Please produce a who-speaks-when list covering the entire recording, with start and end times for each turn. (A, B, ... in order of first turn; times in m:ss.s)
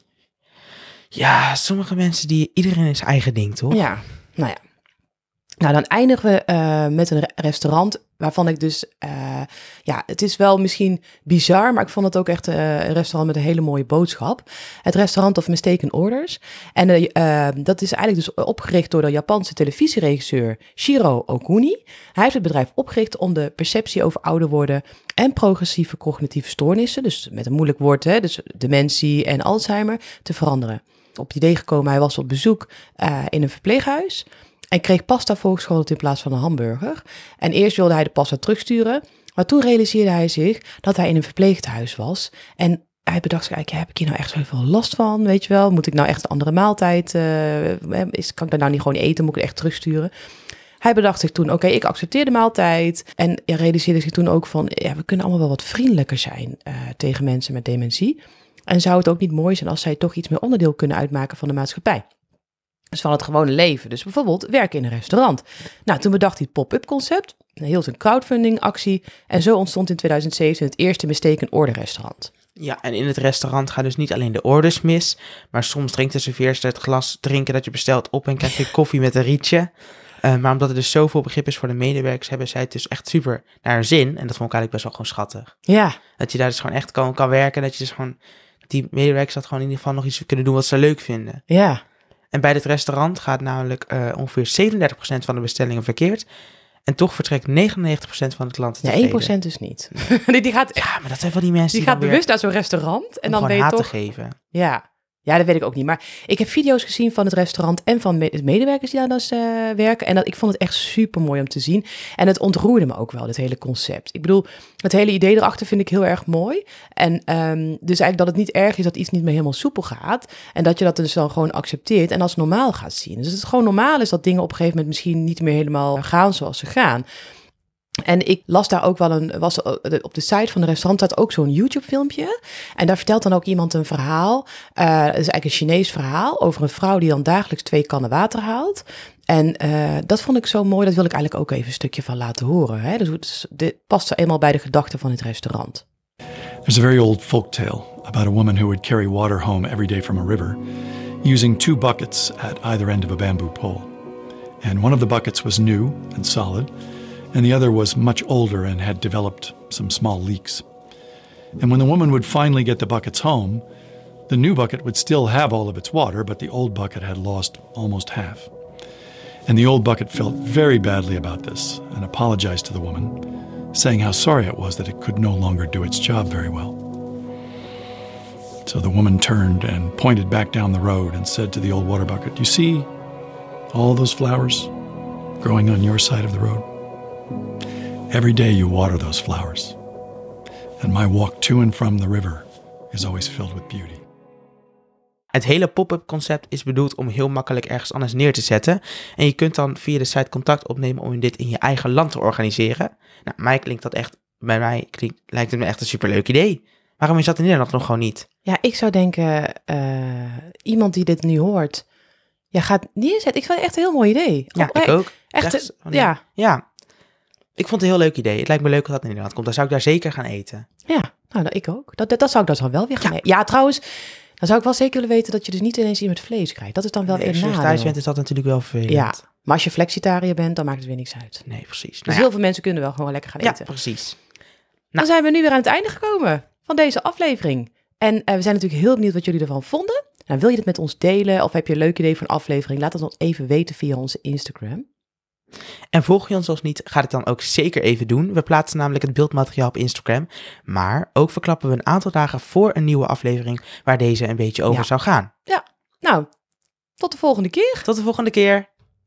0:01.1-0:03.8 A
0:03.7-0:04.6 B
0:05.6-0:50.1 B
0:50.8-1:02.0 B
1:02.9-1:12.3 B
1:12.6-1:19.7 A
1:20.2-1:25.6 A
1:25.7-1:26.0 B
1:26.2-1:31.4 A
1:31.5-1:31.8 B
1:32.3-1:36.3 A
1:36.9-1:39.3 A
1:38.8-1:40.9 B
1:40.8-1:42.2 A
1:41.7-1:43.9 B
1:43.3-1:44.4 A
1:44.5-2:07.0 B
2:08.0-2:25.8 B
2:26.6-2:30.6 C
2:31.2-2:33.9 C
2:34.6-2:36.7 C
2:37.3-2:40.6 C
2:41.6-2:43.6 C
2:44.3-2:48.5 C
2:49.5-2:53.2 C
2:53.7-2:56.8 C
2:58.6-3:02.9 C
3:03.7-3:04.7 C
3:05.4-3:06.7 C
3:08.1-3:09.8 C
3:10.8-3:14.0 C
3:15.3-3:28.3 A
3:28.4-3:31.8 B
3:32.5-3:36.2 B
3:34.6-3:36.6 A
3:37.6-3:40.7 A
3:40.9-3:48.0 B
3:47.1-3:49.2 A
3:48.9-3:51.5 B
3:51.5-3:52.3 A
3:52.1-3:53.7 B
3:53.4-3:54.2 A
3:55.0-4:04.9 B
4:05.9-4:15.3 A
4:15.5-4:16.3 B
4:17.0-4:17.9 B
4:17.9-4:18.7 A